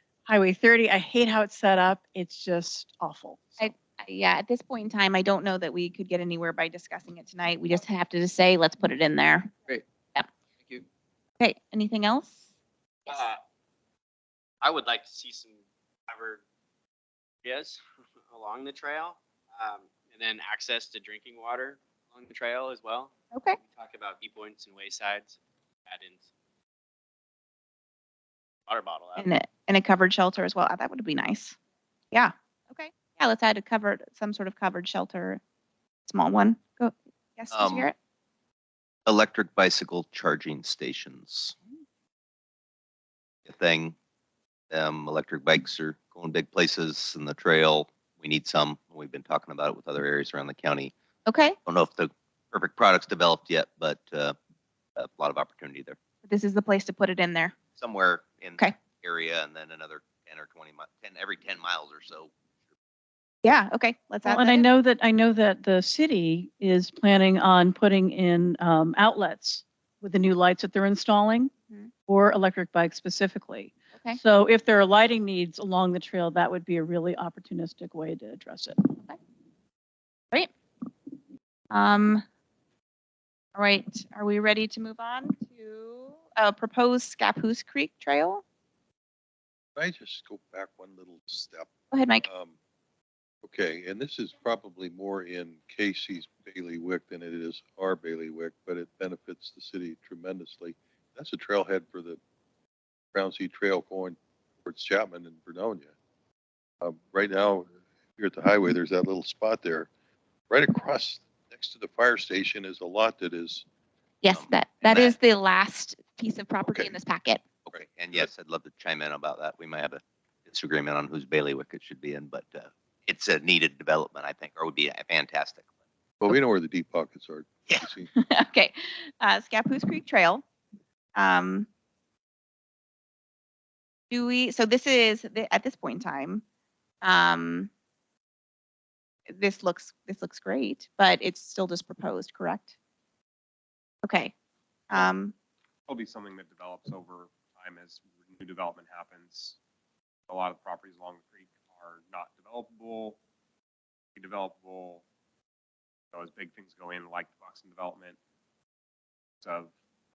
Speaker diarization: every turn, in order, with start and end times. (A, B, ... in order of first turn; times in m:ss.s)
0:00.3-0:03.6 A
0:03.6-0:09.5 B
0:11.4-0:12.4 B
0:13.1-0:13.4 C
0:14.6-0:16.4 C
0:17.4-0:26.3 C
0:23.3-0:23.6 B
0:28.6-0:29.3 C
0:29.2-0:31.6 B
0:32.1-0:35.4 B
0:36.0-0:37.9 B
0:37.5-0:37.9 D
0:39.0-0:41.5 D
0:43.4-0:43.9 D
0:44.7-0:50.9 D
0:51.2-0:51.6 B
0:51.6-0:54.4 D
0:55.0-0:56.0 D
0:56.2-0:57.5 B
0:57.8-1:02.3 D
1:03.4-1:04.6 B
1:04.2-1:11.5 A
1:12.1-1:18.8 A
1:13.9-1:14.2 B
1:21.7-1:22.2 B
1:23.5-1:28.4 B
1:29.8-1:32.6 E
1:31.9-1:32.2 B
1:33.4-1:42.2 E
1:43.1-1:45.9 E
1:46.8-1:49.9 E
1:50.5-1:53.6 E
1:54.2-1:57.4 B
1:54.3-1:55.2 D
1:57.7-2:05.6 D
1:57.7-1:58.3 E
2:06.2-2:08.1 E
2:08.1-2:10.4 B
2:11.1-2:11.7 B
2:14.1-2:16.4 B
2:17.0-2:17.7 B
2:19.3-2:22.7 B
2:24.0-2:24.3 B
2:24.9-2:25.3 B
2:25.9-2:29.6 F
2:30.3-2:33.2 F
2:34.2-2:35.0 F
2:36.1-2:38.2 F
2:39.4-2:39.7 F